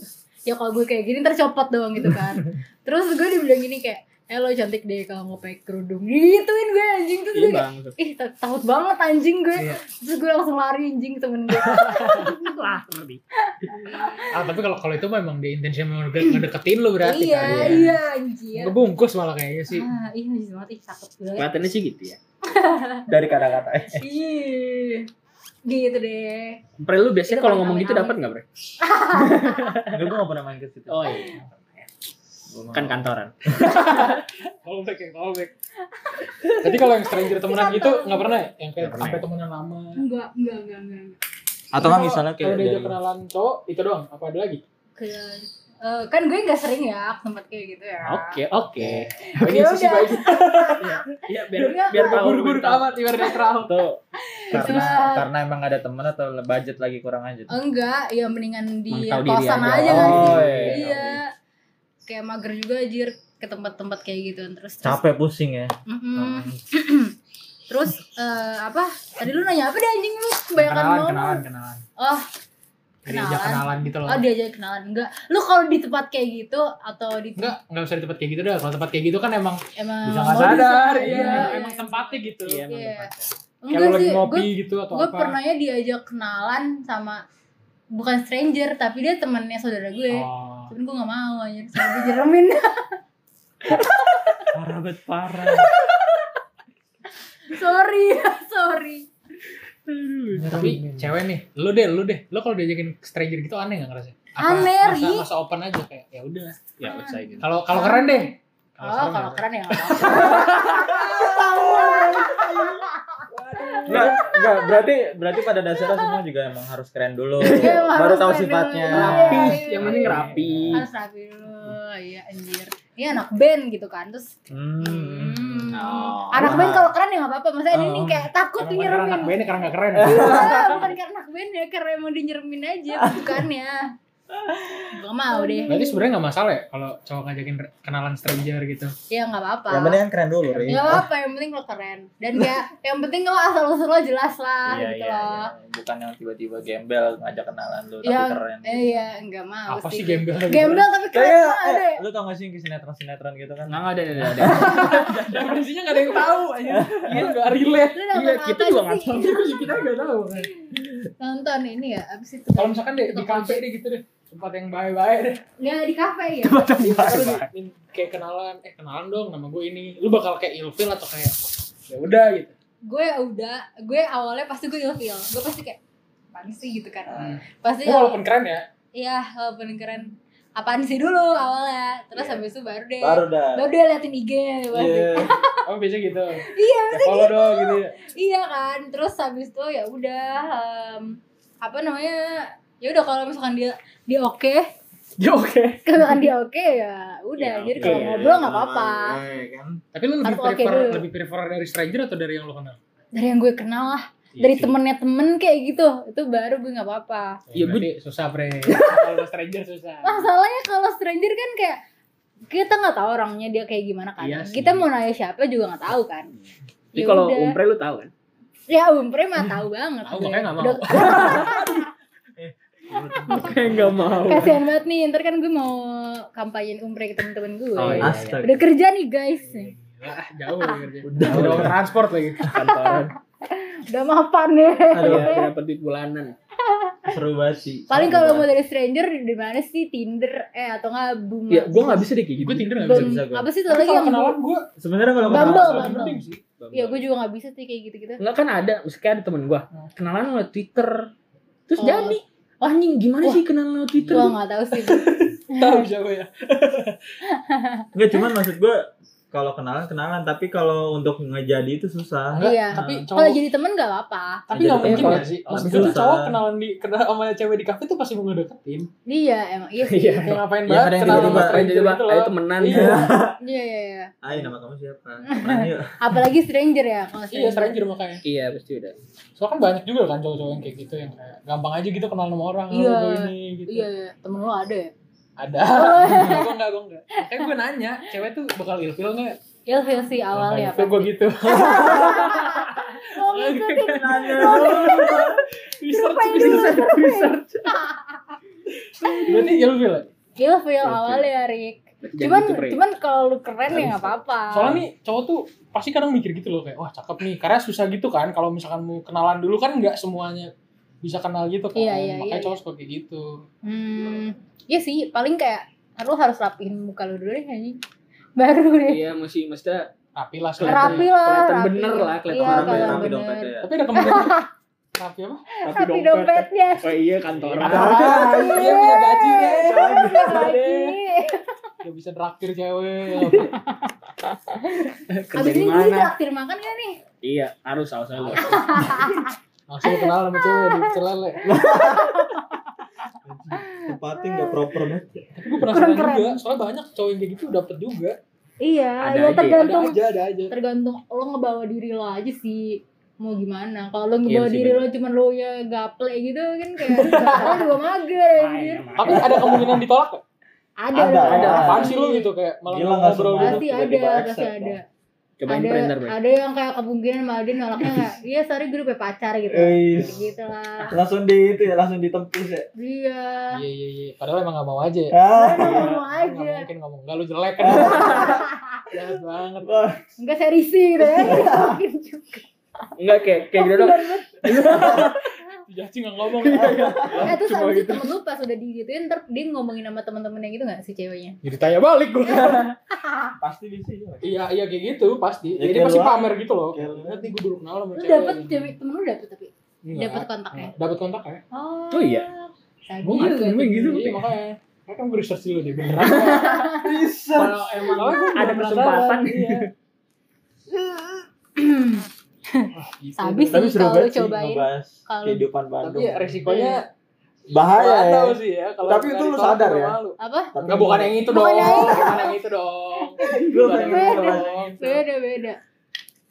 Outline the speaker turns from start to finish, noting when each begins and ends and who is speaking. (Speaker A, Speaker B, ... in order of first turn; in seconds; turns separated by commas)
Speaker A: 0.5-12.6, Speaker B: 7.3-8.0, Speaker B: 11.9-14.0, Speaker A: 13.4-14.5, Speaker C: 14.3-18.0, Speaker A: 17.0-18.8, Speaker B: 17.4-17.9, Speaker C: 18.5-19.9, Speaker A: 19.7-21.7, Speaker B: 21.4-22.2, Speaker A: 22.4-23.1, Speaker D: 23.1-24.0, Speaker A: 23.9-25.1, Speaker A: 25.6-26.6, Speaker B: 26.8-28.4, Speaker A: 27.3-28.2, Speaker A: 28.8-29.8, Speaker B: 29.1-30.1, Speaker D: 29.9-31.4, Speaker B: 30.9-31.9, Speaker D: 32.5-33.1, Speaker B: 32.7-34.2, Speaker C: 33.7-35.5, Speaker A: 36.0-38.3, Speaker C: 36.5-40.0, Speaker B: 38.8-39.2, Speaker D: 38.9-39.2, Speaker A: 40.0-41.2, Speaker D: 41.7-43.0, Speaker C: 41.8-44.6, Speaker A: 45.0-48.4, Speaker B: 48.0-49.1, Speaker D: 48.8-49.1, Speaker A: 49.2-52.3, Speaker C: 49.3-50.9, Speaker B: 50.8-53.0, Speaker C: 51.7-53.8, Speaker A: 53.2-53.4, Speaker D: 53.6-57.5, Speaker A: 54.2-55.2, Speaker A: 57.5-61.3, Speaker B: 58.9-61.1, Speaker D: 59.6-61.1, Speaker A: 62.0-65.0, Speaker D: 64.8-66.6, Speaker A: 65.9-67.1, Speaker A: 67.7-71.4, Speaker C: 70.6-71.8, Speaker A: 72.0-72.2, Speaker C: 73.0-74.2, Speaker A: 73.1-77.5, Speaker C: 77.4-82.6, Speaker A: 79.8-83.1, Speaker B: 80.3-81.5, Speaker B: 82.4-83.3, Speaker A: 83.6-87.2, Speaker C: 83.7-85.4, Speaker A: 87.9-92.9, Speaker C: 90.1-90.7, Speaker A: 93.7-94.4, Speaker D: 94.5-95.7, Speaker A: 95.5-96.2, Speaker A: 97.5-99.1, Speaker B: 99.9-100.6, Speaker D: 100.4-101.1, Speaker C: 100.4-106.6, Speaker A: 104.4-105.2, Speaker B: 106.8-107.5, Speaker A: 106.8-114.8, Speaker C: 107.4-110.9, Speaker B: 110.2-111.0, Speaker D: 111.0-112.8, Speaker B: 113.3-114.2, Speaker D: 113.8-120.7, Speaker A: 115.8-116.1, Speaker B: 117.4-117.8, Speaker A: 117.5-129.5, Speaker B: 118.9-120.8, Speaker C: 119.9-120.2, Speaker D: 124.5-125.7, Speaker B: 125.7-126.6, Speaker D: 126.4-126.9, Speaker D: 127.7-128.2, Speaker C: 128.6-130.5, Speaker D: 129.9-130.8, Speaker A: 130.0-133.9, Speaker B: 130.2-130.9, Speaker D: 133.0-133.4, Speaker D: 134.3-134.9, Speaker A: 134.9-136.1, Speaker C: 135.7-138.9, Speaker A: 139.1-140.0, Speaker D: 139.7-141.1, Speaker A: 140.7-145.5, Speaker B: 144.7-145.5, Speaker D: 145.5-149.1, Speaker A: 148.0-152.0, Speaker C: 149.7-150.8, Speaker D: 151.1-153.8, Speaker B: 153.7-155.3, Speaker C: 154.2-158.0, Speaker D: 154.4-155.5, Speaker D: 156.7-157.2, Speaker B: 157.1-157.6, Speaker A: 157.9-159.6, Speaker B: 158.1-160.9, Speaker C: 159.4-160.5, Speaker A: 160.6-163.6, Speaker C: 162.6-165.4, Speaker A: 165.6-166.7, Speaker B: 166.4-167.5, Speaker C: 166.8-171.3, Speaker C: 171.9-172.5, Speaker A: 172.8-175.8, Speaker A: 176.3-178.2, Speaker C: 177.1-178.6, Speaker A: 178.9-185.6, Speaker D: 183.0-183.6, Speaker D: 184.7-185.3, Speaker C: 185.6-187.9, Speaker A: 186.4-194.6, Speaker B: 195.2-195.8, Speaker A: 195.8-199.2, Speaker B: 197.4-198.3, Speaker D: 197.8-199.8, Speaker C: 199.9-202.8, Speaker A: 200.2-201.0, Speaker A: 203.1-207.4, Speaker B: 204.3-204.7, Speaker C: 207.5-210.3, Speaker B: 207.5-207.9, Speaker B: 208.7-209.1, Speaker A: 210.0-211.8, Speaker A: 212.5-216.3, Speaker C: 214.2-214.8, Speaker A: 216.9-217.6, Speaker B: 216.9-218.1, Speaker A: 218.7-221.9, Speaker C: 220.1-221.6, Speaker B: 220.9-221.6, Speaker D: 222.4-224.1, Speaker B: 223.3-224.6, Speaker A: 223.3-223.7, Speaker A: 224.2-229.7, Speaker B: 227.8-228.5, Speaker D: 227.9-228.6, Speaker C: 229.4-232.5, Speaker D: 231.0-231.8, Speaker B: 231.2-231.7, Speaker A: 232.4-235.5, Speaker B: 232.5-233.1, Speaker D: 234.9-235.3, Speaker B: 235.0-236.3, Speaker A: 236.6-237.1, Speaker D: 237.1-238.5, Speaker A: 237.9-242.1, Speaker B: 241.5-242.8, Speaker C: 242.4-244.7, Speaker A: 242.8-244.3, Speaker D: 242.9-243.5, Speaker D: 244.8-246.1, Speaker C: 245.2-246.4, Speaker A: 245.3-248.2, Speaker B: 246.6-247.0, Speaker B: 248.2-251.1, Speaker B: 251.7-254.3, Speaker A: 251.8-252.2, Speaker A: 254.1-255.9, Speaker C: 254.8-257.0, Speaker A: 257.2-257.9, Speaker D: 257.9-262.9, Speaker C: 262.3-263.4, Speaker A: 262.4-264.4, Speaker C: 264.5-268.9, Speaker D: 264.5-266.4, Speaker B: 264.8-266.0, Speaker A: 269.1-270.3, Speaker B: 269.8-270.4, Speaker C: 270.2-273.1, Speaker D: 270.7-271.6, Speaker B: 271.0-273.1, Speaker D: 272.7-273.4, Speaker A: 273.4-274.1, Speaker D: 274.2-276.2, Speaker A: 275.3-277.8, Speaker C: 277.3-278.2, Speaker B: 278.2-278.9, Speaker C: 279.4-283.9, Speaker A: 282.7-284.9, Speaker C: 285.4-289.4, Speaker A: 285.6-286.5, Speaker A: 287.2-287.5, Speaker A: 289.7-295.3, Speaker C: 290.3-296.9, Speaker D: 291.6-292.3, Speaker D: 293.9-295.4, Speaker A: 295.8-298.4, Speaker B: 296.3-297.8, Speaker A: 299.0-299.6, Speaker C: 299.2-300.1, Speaker A: 300.4-304.8, Speaker B: 300.8-301.3, Speaker B: 302.0-302.8, Speaker C: 304.5-310.5, Speaker C: 311.0-313.4, Speaker A: 311.8-312.6, Speaker A: 313.6-317.8, Speaker A: 318.4-319.0, Speaker B: 318.9-319.9, Speaker C: 320.1-321.1, Speaker B: 320.6-323.1, Speaker A: 320.6-324.5, Speaker D: 322.3-323.7, Speaker C: 323.6-324.4, Speaker C: 324.9-325.4, Speaker A: 325.5-327.0, Speaker B: 325.6-328.2, Speaker C: 327.3-330.6, Speaker D: 327.6-330.6, Speaker A: 327.7-331.4, Speaker B: 330.3-330.9, Speaker C: 331.8-333.6, Speaker A: 333.3-333.9, Speaker B: 334.5-336.1, Speaker A: 335.3-337.0, Speaker B: 337.2-339.1, Speaker C: 338.1-338.9, Speaker A: 338.4-339.3, Speaker C: 339.7-341.5, Speaker A: 339.8-342.7, Speaker D: 341.4-342.3, Speaker D: 343.2-345.3, Speaker A: 343.6-344.7, Speaker C: 345.4-348.1, Speaker A: 345.7-346.4, Speaker A: 348.6-350.0, Speaker B: 349.0-349.6, Speaker C: 349.5-350.5, Speaker A: 350.5-359.2, Speaker B: 354.3-354.9, Speaker C: 356.9-357.6, Speaker B: 357.2-357.7, Speaker B: 358.4-359.8, Speaker C: 358.9-360.2, Speaker A: 360.8-362.3, Speaker D: 360.9-361.9, Speaker B: 361.2-361.9, Speaker C: 361.5-363.6, Speaker D: 362.7-364.8, Speaker A: 363.4-364.8, Speaker B: 365.4-366.1, Speaker A: 365.5-370.9, Speaker D: 369.5-370.2, Speaker D: 370.9-372.7, Speaker A: 372.8-373.6, Speaker C: 373.5-375.1, Speaker D: 375.1-375.9, Speaker A: 375.3-376.7, Speaker B: 375.6-376.0, Speaker C: 376.1-379.7, Speaker D: 377.6-378.3, Speaker B: 377.8-378.4, Speaker A: 378.0-378.9, Speaker D: 379.6-380.0, Speaker A: 380.2-382.9, Speaker D: 381.0-381.8, Speaker B: 383.0-385.2, Speaker A: 383.5-384.7, Speaker C: 384.5-387.3, Speaker D: 384.7-385.1, Speaker B: 386.4-388.1, Speaker D: 386.5-387.3, Speaker A: 387.2-391.4, Speaker C: 391.4-392.7, Speaker B: 392.3-392.6, Speaker A: 392.4-393.3, Speaker D: 393.4-394.3, Speaker C: 394.2-398.7, Speaker D: 395.6-397.3, Speaker A: 397.9-400.7, Speaker C: 399.8-401.4, Speaker A: 401.5-403.8, Speaker B: 401.9-402.3, Speaker C: 403.0-406.8, Speaker B: 403.6-404.2, Speaker B: 406.0-406.7, Speaker A: 406.0-407.0, Speaker D: 406.8-407.6, Speaker C: 407.3-409.7, Speaker A: 407.8-408.4, Speaker B: 408.2-409.7, Speaker A: 411.6-415.4, Speaker C: 412.7-413.7, Speaker D: 413.5-416.4, Speaker C: 415.8-416.8, Speaker A: 416.4-416.8, Speaker C: 417.5-425.0, Speaker D: 417.5-420.0, Speaker A: 420.2-420.5, Speaker D: 420.5-422.2, Speaker A: 421.3-422.3, Speaker A: 423.2-425.6, Speaker D: 423.2-424.7